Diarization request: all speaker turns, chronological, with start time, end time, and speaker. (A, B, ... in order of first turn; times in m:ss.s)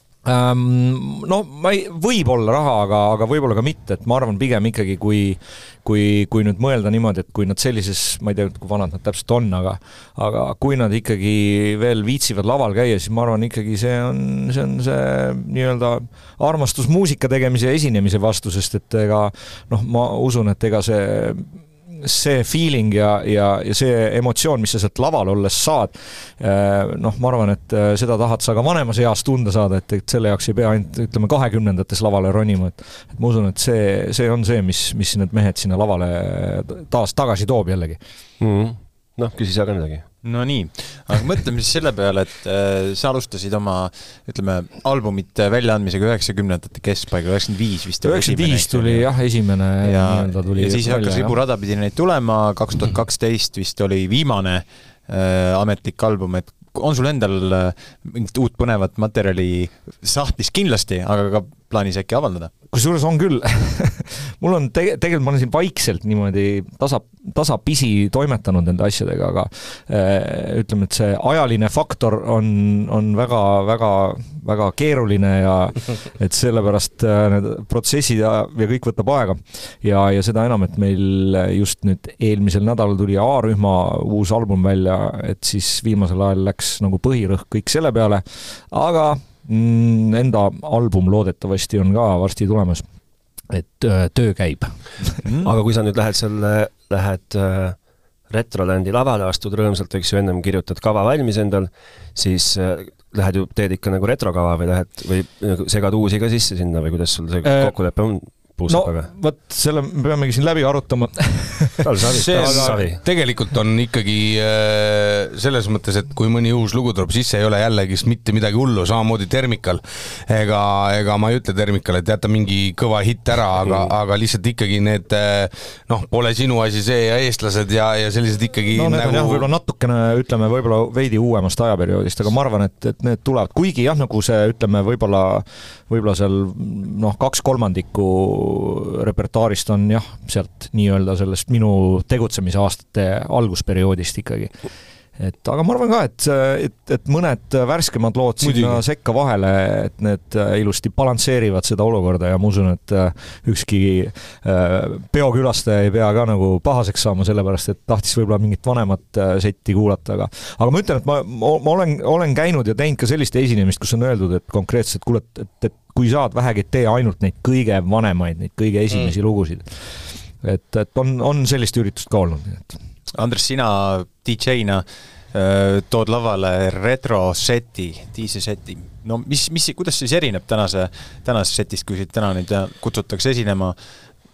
0:00.2-0:38.0 A
0:38.4-0:40.0 B
0:40.2-0:49.3 C
0:48.0-0:51.4 A
0:49.8-1:02.5 C
1:02.7-1:32.8 A
1:33.5-1:35.2 A
1:35.2-1:35.5 C
1:35.4-1:37.8 B
1:38.3-1:49.1 B
1:47.4-1:47.7 A
1:48.7-1:52.8 A
1:51.8-1:53.0 B
1:52.1-2:09.4 D
2:08.7-2:24.6 A
2:25.2-2:52.8 A
2:28.4-2:28.8 D
2:53.1-3:03.8 C